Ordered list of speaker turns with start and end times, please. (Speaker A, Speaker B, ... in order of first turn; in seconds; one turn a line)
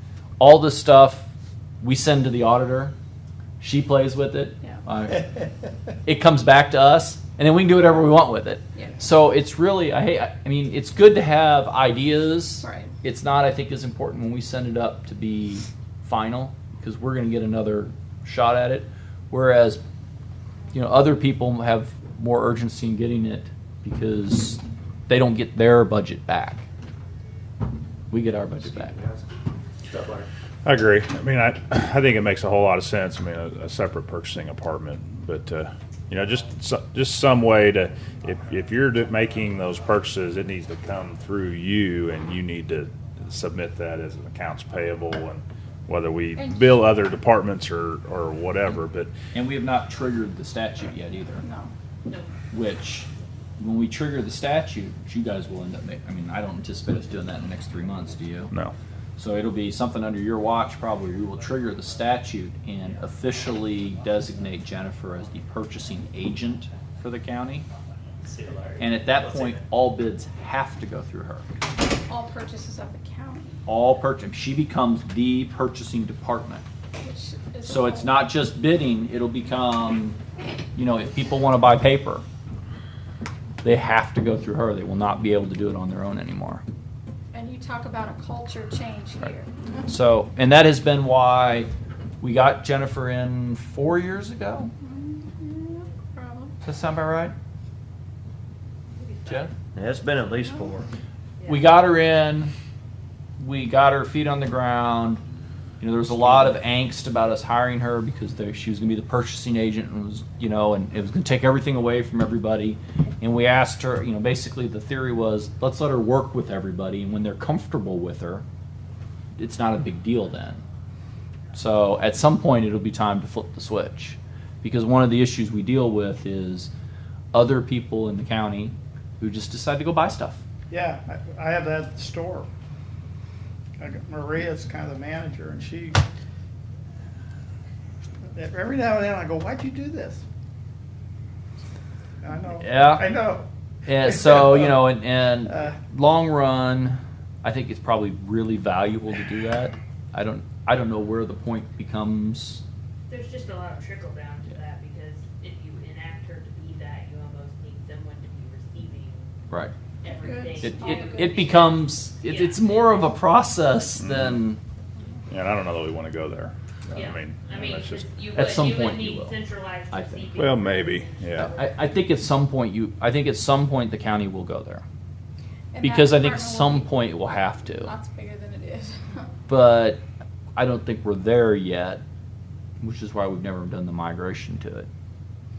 Speaker A: 0.4-1.2
Speaker A: 1.8-2.9
Speaker A: 3.6-5.4
Speaker A: 6.0-19.8
Speaker B: 8.7-9.0
Speaker B: 12.6-12.9
Speaker A: 20.7-26.6
Speaker A: 28.1-28.9
Speaker C: 28.6-29.3
Speaker C: 29.9-30.3
Speaker D: 30.6-49.1
Speaker B: 46.3-46.8
Speaker A: 49.3-51.4
Speaker B: 51.4-51.7
Speaker A: 52.5-53.1
Speaker A: 53.6-58.5
Speaker A: 59.2-67.7
Speaker C: 68.2-69.5
Speaker A: 68.8-71.5
Speaker B: 72.0-73.6
Speaker A: 73.7-76.6
Speaker B: 77.0-78.3
Speaker A: 77.6-80.2
Speaker A: 80.7-82.2
Speaker A: 83.6-86.6
Speaker B: 87.3-89.9
Speaker A: 89.8-91.7
Speaker A: 92.2-94.7
Speaker B: 94.8-96.5
Speaker A: 96.6-97.3
Speaker E: 99.0-99.5
Speaker A: 99.2-99.5
Speaker C: 99.7-100.9
Speaker A: 101.5-102.5
Speaker A: 103.4-105.2
Speaker A: 105.8-118.4
Speaker A: 119.4-120.6
Speaker A: 121.5-126.7
Speaker A: 127.3-130.4
Speaker F: 130.7-132.5
Speaker F: 133.8-136.0
Speaker F: 138.3-140.2
Speaker F: 142.2-143.5
Speaker A: 142.6-143.1
Speaker A: 143.8-152.6
Speaker F: 144.0-144.8
Speaker F: 145.4-145.7
Speaker E: 153.1-159.4
Speaker E: 160.0-163.2
Speaker B: 160.2-161.5
Speaker A: 160.6-164.6
Speaker D: 164.0-164.4
Speaker D: 165.3-168.1
Speaker E: 166.9-171.8
Speaker A: 168.3-169.4
Speaker A: 169.9-170.3
Speaker D: 170.3-171.5
Speaker A: 171.4-174.8
Speaker B: 175.7-179.3
Speaker A: 175.8-177.9
Speaker A: 179.5-180.0
Speaker A: 180.6-182.0
Speaker A: 182.8-184.9